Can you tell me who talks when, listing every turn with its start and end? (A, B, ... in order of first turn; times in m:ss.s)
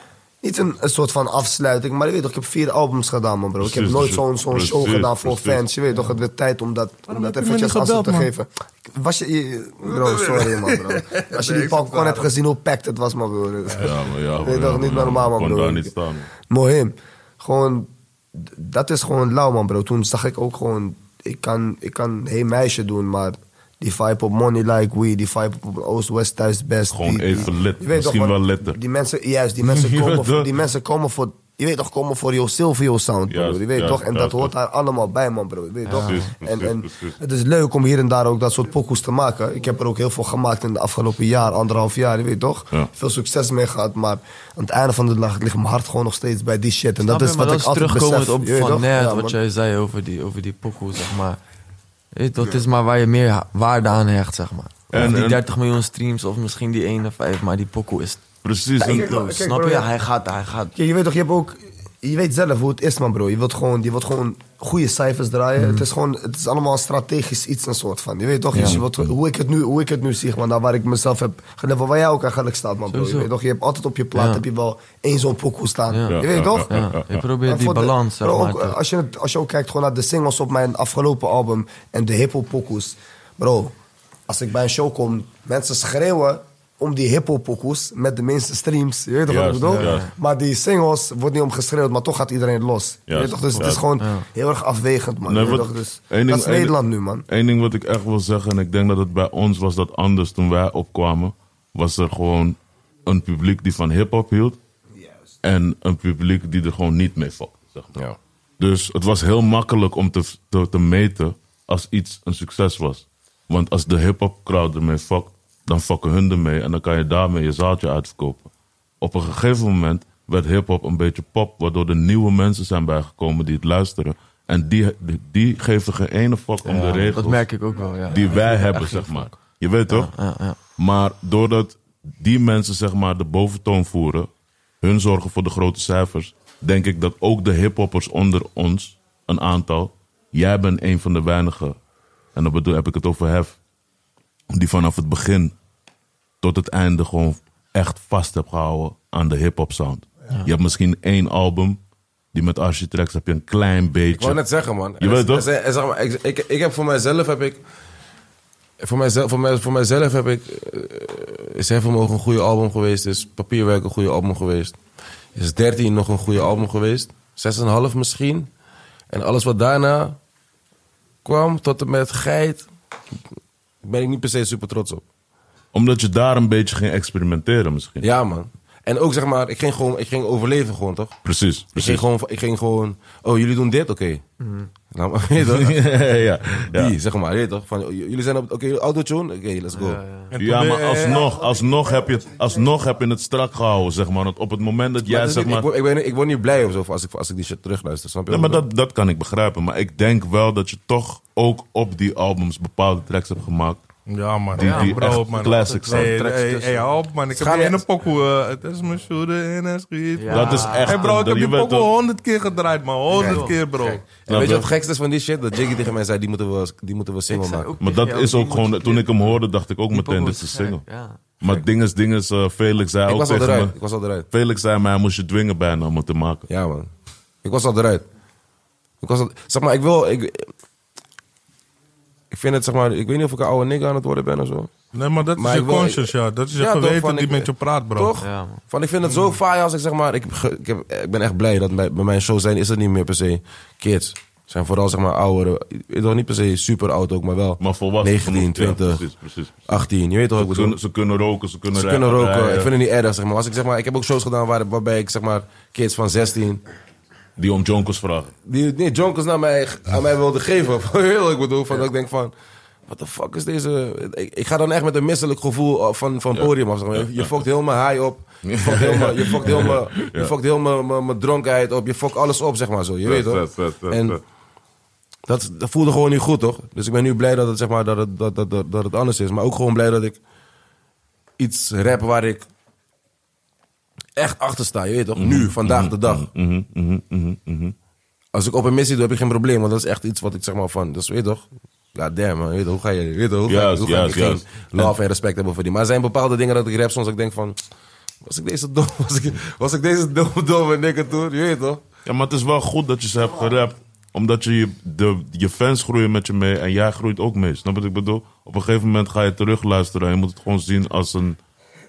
0:00.4-0:49.4 A
0:03.6-0:05.6 B
0:07.1-0:08.3 C
0:09.8-0:12.3 C
0:13.8-0:16.3 B
0:26.9-0:28.8 B
0:29.6-0:30.5 B
0:33.3-0:34.5 B
0:35.9-0:36.3 D
0:35.9-0:37.2 B
0:47.1-0:51.4 D
0:52.2-0:58.2 D
0:54.9-0:55.4 B
0:58.4-0:59.1 B
0:58.8-1:00.7 D
0:58.8-0:59.9 A
1:00.8-1:16.9 A
1:05.6-1:05.8 D
1:08.5-1:08.8 D
1:08.5-1:08.9 B
1:12.9-1:13.3 D
1:14.2-1:14.4 D
1:15.9-1:18.8 D
1:16.1-1:17.2 B
1:17.4-1:23.7 A
1:24.3-1:37.2 A
1:29.3-1:30.1 B
1:29.7-1:30.1 D
1:33.1-1:33.8 B
1:34.0-1:34.2 D
1:35.3-1:36.8 B
1:37.3-1:44.6 B
1:45.4-1:47.9 B
1:48.6-1:58.5 B
1:59.0-2:07.4 B
2:06.6-2:09.3 D
2:08.1-2:10.1 B
2:09.9-2:10.6 D
2:10.8-2:14.3 B
2:14.8-2:21.8 B
2:22.4-2:23.6 B
2:24.5-2:25.5 B
2:26.4-2:31.8 B
2:32.3-2:34.4 B
2:34.2-2:37.6 E
2:35.0-2:35.5 B
2:38.8-2:44.8 E
2:45.4-2:48.5 E
2:49.1-2:50.2 E
2:51.2-2:52.7 E
2:53.8-2:55.0 E
2:55.7-2:58.1 B
2:58.0-3:01.2 E
3:01.2-3:02.0 B
3:01.8-3:04.2 E
3:04.4-3:04.7 D
3:04.9-3:05.8 E
3:05.4-3:07.0 B
3:06.7-3:10.0 E
3:09.7-3:10.4 D
3:10.4-3:11.2 C
3:10.4-3:15.7 B
3:15.0-3:18.6 E
3:18.3-3:23.8 B
3:24.1-3:34.0 C
3:24.5-3:26.1 B
3:24.6-3:26.2 D
3:26.0-3:26.8 E
3:27.3-3:27.8 E
3:30.2-3:31.2 D
3:30.3-3:31.9 B
3:33.1-3:33.6 D
3:33.1-3:37.7 E
3:34.3-3:34.7 B
3:37.3-3:39.4 D
3:37.8-3:40.8 B
3:39.9-3:41.2 D
3:41.4-3:43.8 B
3:43.1-3:44.3 E
3:44.3-3:46.5 B
3:46.5-3:46.9 E
3:47.4-3:48.0 E
3:49.0-3:50.5 E
3:52.3-3:54.7 E
3:54.9-3:58.2 C
3:55.4-4:09.0 E
3:58.2-3:58.6 D
3:59.1-3:59.4 C
4:07.6-4:09.8 B
4:09.7-4:10.8 E
4:10.4-4:12.7 B
4:11.7-4:16.6 E
4:17.4-4:18.3 B
4:18.5-4:22.3 E
4:22.9-4:34.2 E
4:26.4-4:27.4 B
4:28.4-4:30.3 B
4:33.0-4:34.2 B
4:35.3-4:40.2 E
4:41.4-4:42.5 E
4:44.2-4:46.3 E
4:45.2-4:47.8 B
4:48.3-4:57.6 E
4:53.5-4:54.9 B
4:58.2-5:01.8 E
5:02.1-5:11.4 B